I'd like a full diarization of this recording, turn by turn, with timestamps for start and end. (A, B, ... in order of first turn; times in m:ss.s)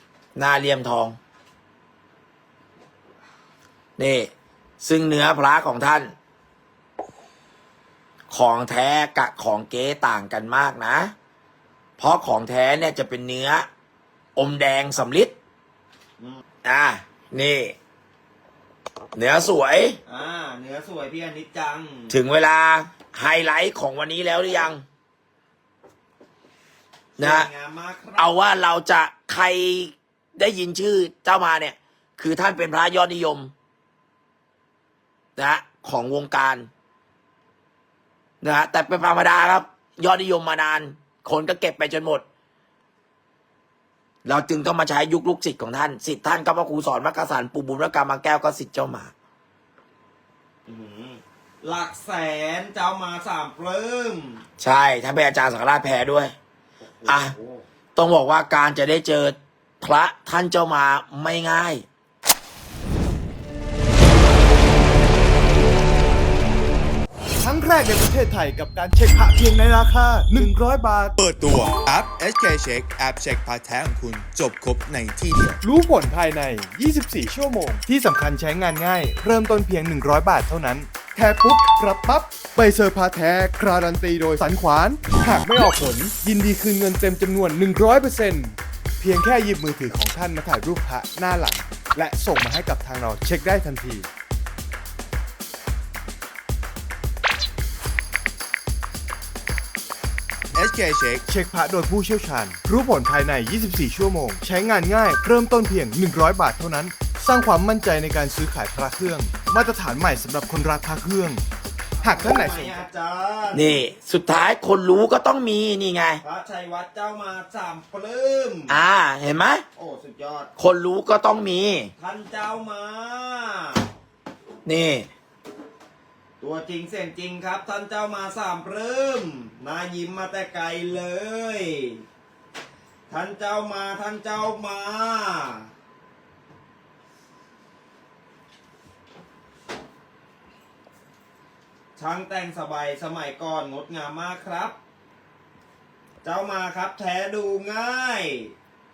0:00.4-0:01.2 A
0:04.0-0:04.3 A
0:04.8-0:06.1 A
0:08.3-0:11.1 A
0:12.0-0:13.7 A
0:14.4-0:15.3 A
0:16.6-0:17.8 A
0:19.2-0:20.0 A
0:20.1-0:22.2 B
0:22.1-0:24.8 A
0:27.2-0:27.5 A
0:27.2-0:28.3 B
0:28.2-0:33.5 A
0:35.4-0:36.7 A
0:38.4-0:42.2 A
0:44.3-0:49.1 A
0:50.7-0:54.4 B
0:54.6-0:56.3 A
0:56.8-0:57.6 B
0:57.1-0:57.3 A
0:58.0-1:01.8 A
1:07.4-1:11.2 C
1:11.2-1:15.6 D
1:15.6-1:34.1 C
1:40.5-1:41.2 D
1:41.3-1:51.4 C
1:52.0-1:53.8 B
1:52.0-1:52.8 C
1:53.5-1:56.2 A
1:56.2-1:58.8 B
1:58.7-1:59.6 A
1:59.8-2:00.5 B
2:00.6-2:01.9 A
2:02.0-2:03.8 B
2:04.7-2:05.1 A
2:06.4-2:12.0 B
2:13.1-2:15.7 B
2:22.0-2:24.8 B
2:26.2-2:28.5 B